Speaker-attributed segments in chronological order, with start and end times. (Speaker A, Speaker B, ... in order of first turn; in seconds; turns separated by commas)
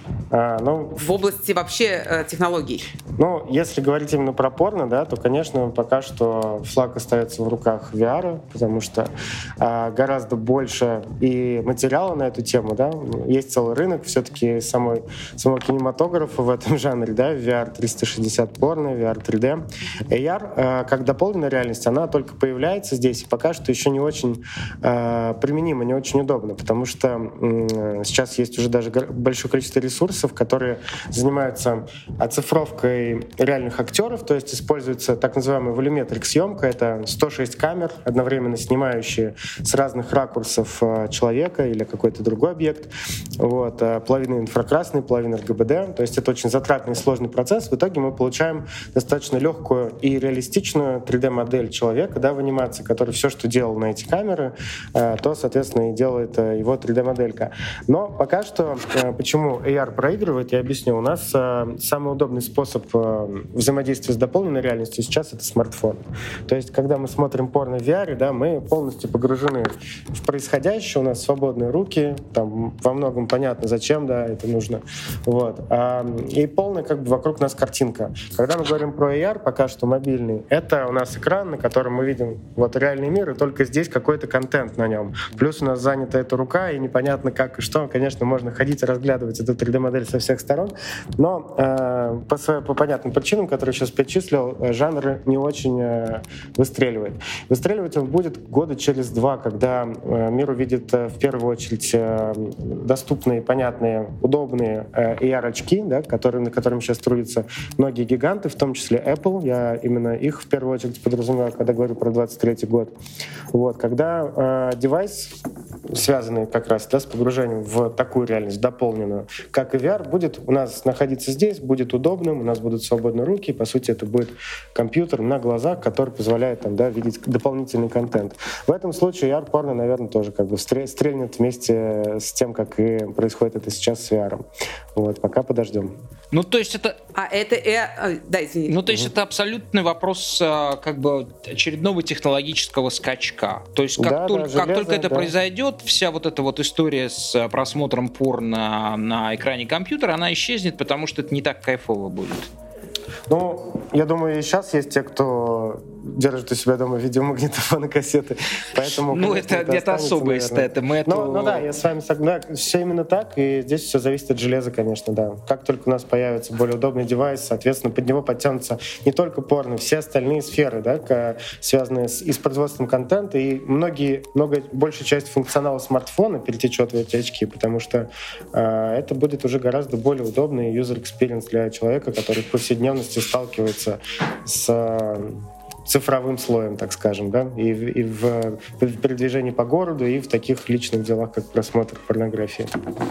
Speaker A: 0.3-1.1, Speaker B: 1.0-2.9, Speaker A: 3.2-112.9, Speaker A: 113.5-115.3, Speaker A: 115.9-134.4, Speaker A: 134.9-136.0, Speaker C: 136.3-137.0, Speaker B: 137.2-138.8, Speaker C: 138.7-152.5, Speaker A: 144.0-145.3, Speaker A: 153.3-192.7, Speaker C: 158.8-161.7